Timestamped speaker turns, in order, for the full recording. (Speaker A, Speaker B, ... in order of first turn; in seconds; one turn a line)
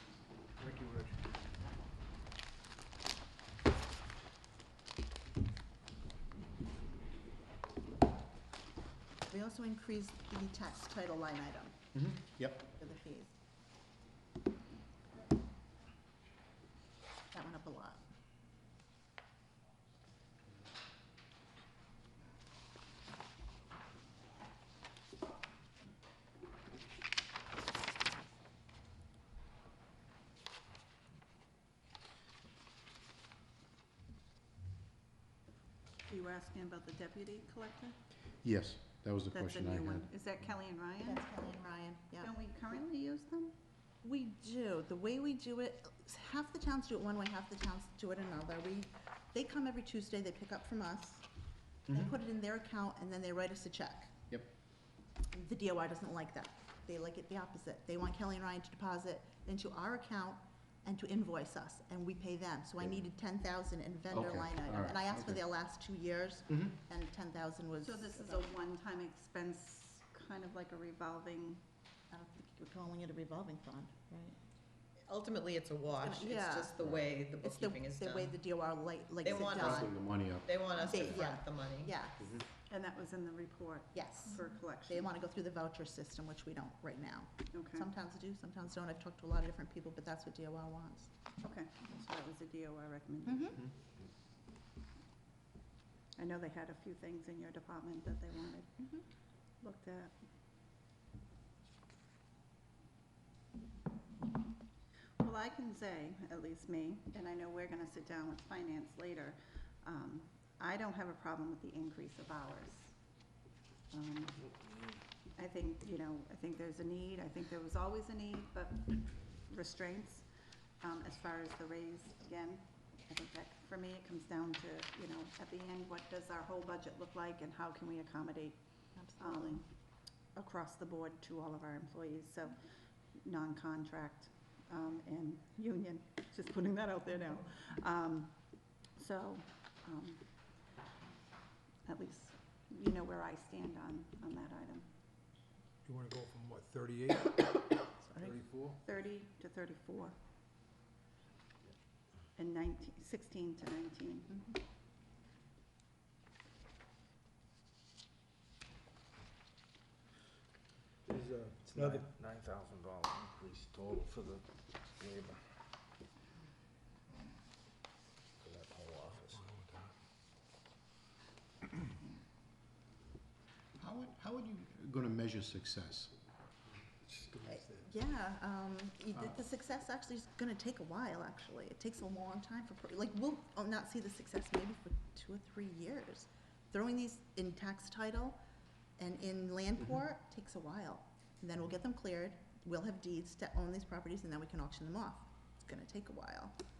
Speaker A: 0.6-1.2
Speaker B: 9.3-11.8
Speaker C: 11.9-12.7
Speaker B: 12.7-13.3
Speaker B: 17.3-18.0
Speaker D: 36.1-38.0
Speaker C: 38.4-40.1
Speaker D: 39.3-41.3
Speaker B: 41.0-42.3
Speaker D: 42.2-43.5
Speaker B: 44.0-51.2
Speaker C: 51.9-52.2
Speaker B: 51.9-54.1
Speaker C: 54.3-54.5
Speaker B: 55.3-68.5
Speaker C: 64.1-65.4
Speaker C: 66.5-66.8
Speaker D: 67.8-71.6
Speaker B: 72.1-74.3
Speaker E: 75.1-78.4
Speaker B: 76.0-76.8
Speaker C: 76.8-77.2
Speaker B: 77.4-79.9
Speaker E: 79.2-82.1
Speaker C: 79.6-81.3
Speaker B: 80.9-82.2
Speaker C: 82.1-82.5
Speaker D: 82.7-85.1
Speaker B: 83.9-91.1
Speaker D: 87.5-87.9
Speaker D: 91.4-93.6
Speaker B: 93.3-93.6
Speaker D: 96.2-98.7
Speaker D: 99.6-100.1
Speaker D: 105.2-112.9
Speaker D: 113.9-114.5
Speaker D: 115.3-118.9
Speaker D: 119.5-120.3
Speaker D: 120.8-128.6
Speaker B: 129.0-129.6
Speaker D: 129.2-129.7
Speaker D: 130.3-132.6
Speaker D: 133.2-138.4
Speaker D: 138.9-140.2
Speaker D: 141.8-144.9
Speaker A: 145.8-147.3
Speaker A: 148.2-148.8
Speaker D: 148.8-150.2
Speaker D: 152.3-154.3
Speaker F: 161.1-164.3
Speaker F: 168.4-169.2
Speaker A: 169.3-169.8
Speaker C: 173.8-176.1
Speaker F: 176.8-177.9
Speaker B: 177.5-188.4
Speaker C: 179.1-179.4
Speaker B: 189.0-196.6